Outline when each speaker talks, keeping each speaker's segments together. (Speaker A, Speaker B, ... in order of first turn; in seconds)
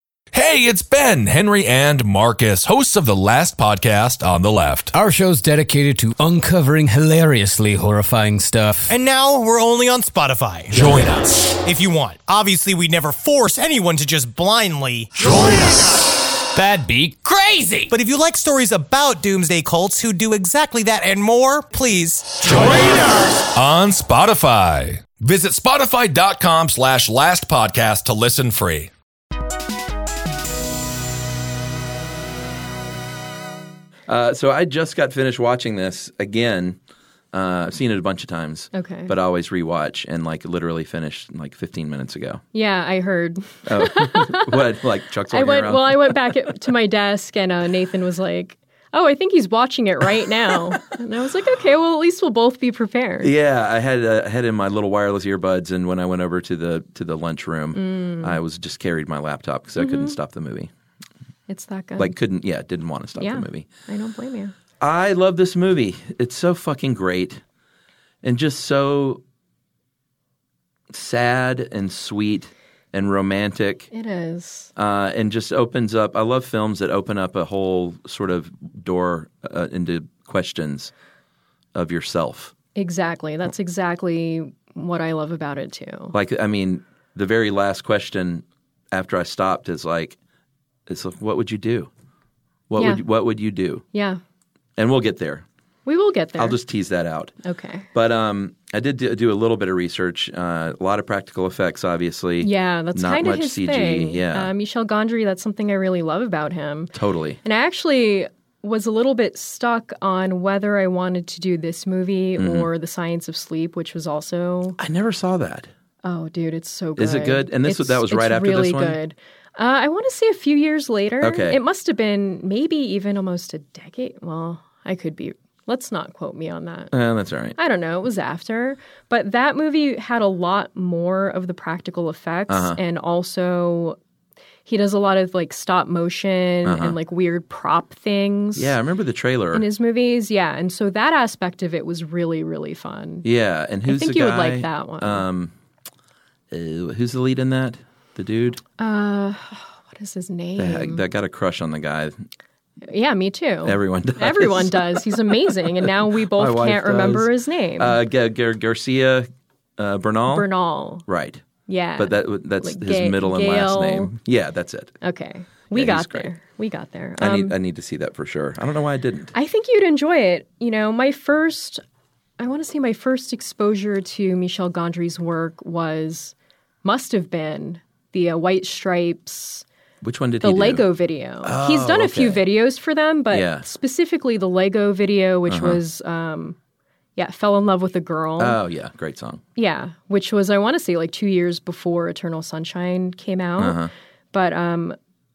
Speaker A: 0.3-4.9, 10.7-11.5, 22.4-28.9
Speaker B: 4.9-8.9, 16.9-17.1
Speaker C: 8.9-10.9, 11.5-15.8, 16.5-23.2
Speaker D: 34.1-36.8, 37.3-42.4, 43.7-46.2, 53.2-60.7, 62.0-63.6, 64.8-67.4, 68.2-69.2, 70.9-73.9, 74.8-80.9, 81.7-82.5, 86.1-90.2, 90.9-91.9, 92.7-93.8, 94.8-95.4, 96.4-97.3, 97.9-104.5, 106.9-107.4, 112.4-112.7, 114.8-115.7, 117.0-119.0, 121.2-121.6, 126.9-127.5, 132.5-132.8, 136.6-137.0, 138.6-139.7, 143.2-145.5, 146.5-148.6, 150.6-152.2, 153.6-155.1, 156.3-160.5, 161.1-161.4, 162.0-165.0, 165.7-166.3, 167.2-169.3, 180.0-180.8, 181.4-182.4, 183.3-183.6, 185.5-185.8, 188.4-189.4, 193.6-193.9
Speaker E: 38.7-39.1, 42.5-44.6, 45.3-53.3, 57.7-58.4, 59.8-60.1, 61.5-62.1, 63.2-64.5, 73.9-74.7, 82.7-86.1, 93.9-94.2, 95.8-96.6, 97.4-97.9, 102.4-106.9, 107.4-114.8, 116.0-126.9, 127.5-134.0, 134.6-138.8, 139.5-143.2, 143.9-145.2, 148.8-151.0, 152.8-158.0, 160.3-161.1, 161.7-164.1, 165.0-167.5, 169.3-171.8, 172.4-179.6, 180.4-186.6, 187.2-188.6, 189.6-193.8, 194.3-195.0